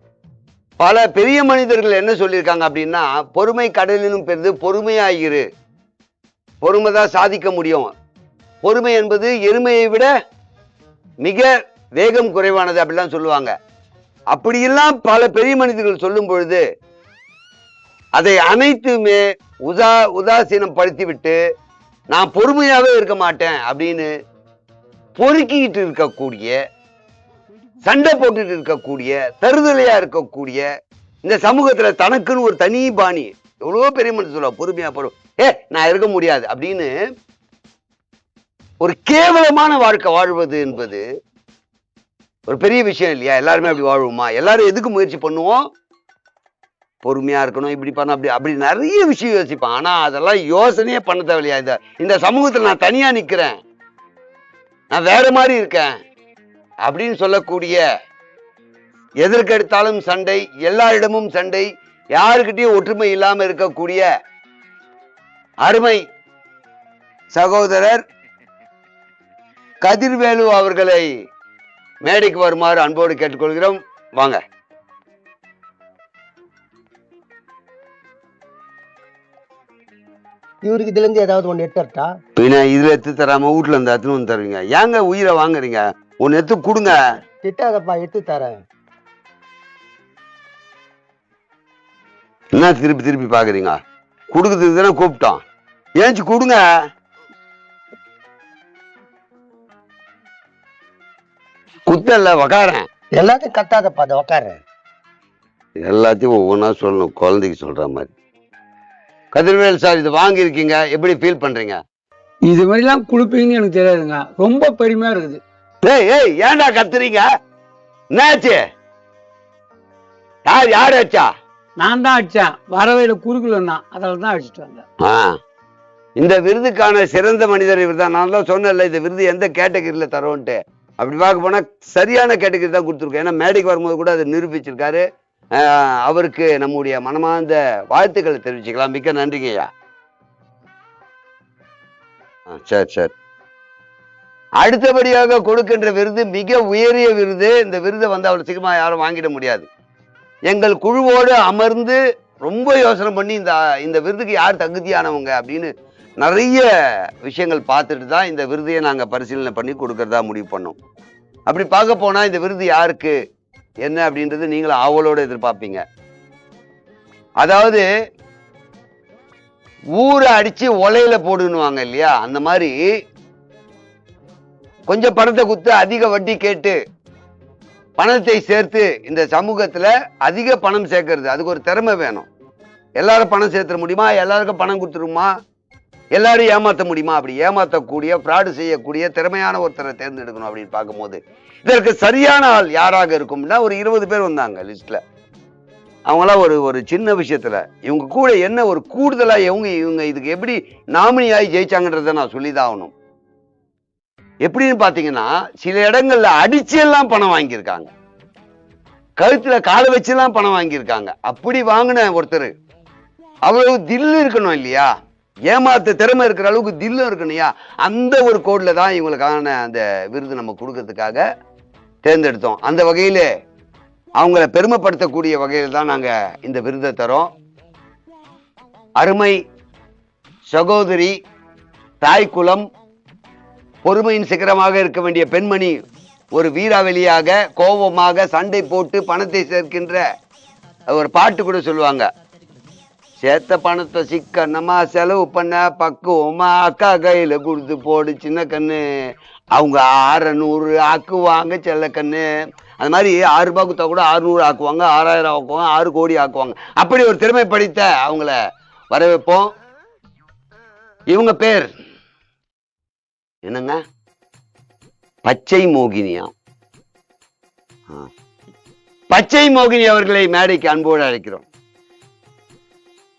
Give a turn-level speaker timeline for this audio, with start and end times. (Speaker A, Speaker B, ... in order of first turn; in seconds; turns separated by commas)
Speaker A: 0.8-5.4, Speaker A: 6.6-7.9, Speaker A: 8.6-10.1, Speaker A: 11.2-13.5, Speaker A: 14.3-16.6, Speaker A: 18.2-21.4, Speaker A: 22.1-24.1, Speaker A: 25.2-26.6, Speaker A: 27.8-30.6, Speaker A: 31.2-36.9, Speaker A: 38.8-41.0, Speaker A: 42.5-45.6, Speaker A: 47.0-53.5, Speaker A: 54.9-55.9, Speaker A: 56.8-57.8, Speaker A: 59.2-64.0, Speaker A: 65.6-66.0, Speaker A: 67.3-68.0, Speaker A: 69.8-71.0, Speaker A: 72.0-74.4, Speaker B: 80.6-82.1, Speaker A: 82.4-87.0, Speaker B: 87.4-88.5, Speaker A: 92.5-93.8, Speaker A: 94.3-95.4, Speaker A: 96.0-96.6, Speaker A: 101.9-102.8, Speaker B: 103.2-104.6, Speaker A: 105.8-108.1, Speaker A: 109.3-111.8, Speaker C: 112.5-115.4, Speaker A: 115.8-117.2, Speaker A: 118.1-118.6, Speaker A: 120.5-121.3, Speaker C: 121.8-124.8, Speaker A: 126.2-135.0, Speaker A: 135.6-139.7, Speaker A: 142.6-143.1, Speaker A: 144.6-149.7, Speaker A: 150.5-155.7, Speaker A: 156.2-156.7, Speaker A: 157.2-160.8, Speaker A: 161.5-163.1, Speaker A: 163.8-165.8, Speaker A: 167.4-167.8, Speaker A: 170.0-172.7, Speaker A: 174.9-176.7, Speaker A: 178.0-182.3, Speaker A: 183.0-185.3, Speaker A: 186.2-195.0, Speaker A: 196.1-202.9, Speaker A: 204.4-207.9, Speaker A: 209.2-212.5, Speaker A: 213.5-214.9, Speaker A: 215.5-221.2, Speaker A: 222.0-223.3, Speaker A: 224.2-227.3, Speaker A: 229.0-229.3, Speaker A: 230.5-231.1, Speaker A: 232.0-232.6, Speaker A: 233.8-235.8, Speaker A: 236.3-240.0, Speaker A: 240.9-242.1, Speaker A: 243.2-248.8, Speaker A: 249.6-252.3, Speaker A: 252.8-258.3, Speaker A: 258.9-259.5, Speaker A: 261.1-261.7, Speaker A: 263.5-263.8, Speaker A: 265.2-266.3, Speaker A: 269.1-271.4